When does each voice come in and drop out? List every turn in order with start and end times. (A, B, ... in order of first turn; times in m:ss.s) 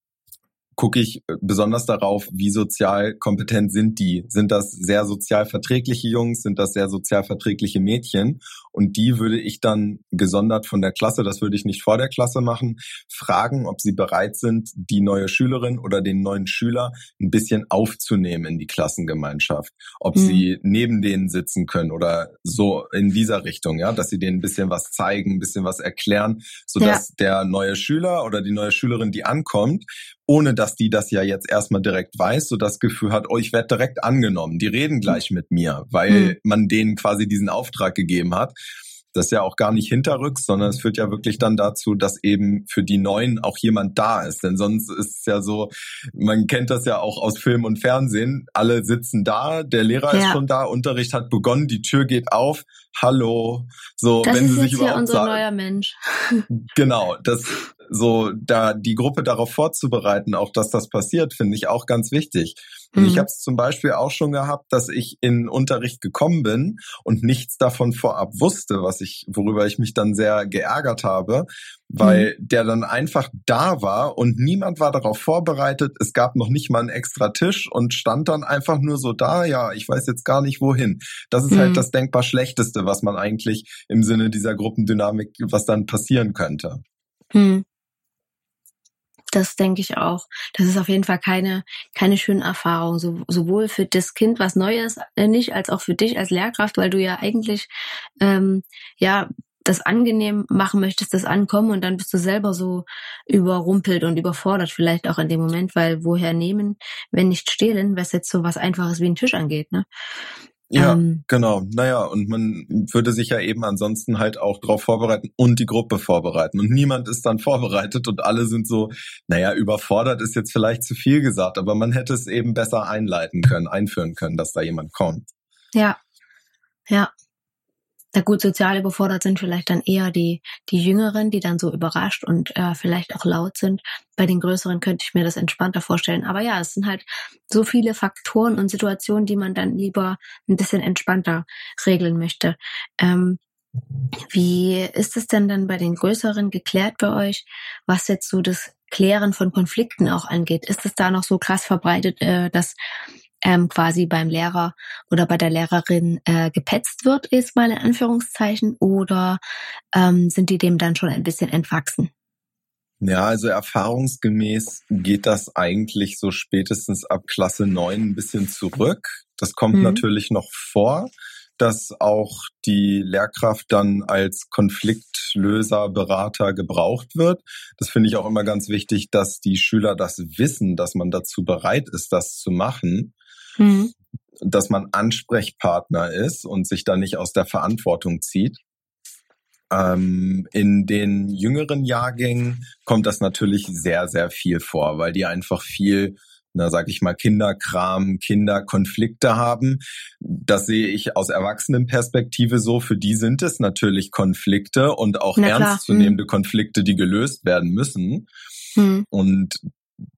0:00.8-0:38.5 A
0:20.1-0:20.4 B
0:36.1-0:36.3 B
0:39.1-0:55.4 A
0:50.1-0:50.4 B
0:54.2-0:56.4 B
0:56.6-1:26.8 A
1:02.9-1:03.3 B
1:12.0-1:12.3 B
1:21.5-1:21.8 B
1:27.3-1:27.6 B
1:29.3-1:37.7 B
1:38.2-1:49.8 B
1:50.7-2:05.3 A
1:50.8-1:51.2 B
2:08.1-2:23.4 B
2:24.3-2:32.8 B
2:33.4-2:39.4 B
2:39.9-2:42.1 B
2:43.0-3:03.1 A
2:49.7-2:50.0 B
3:03.6-3:03.9 B
3:04.4-3:08.6 A
3:09.7-3:28.3 A
3:25.4-3:26.2 B
3:28.8-3:29.0 B
3:29.1-3:29.6 A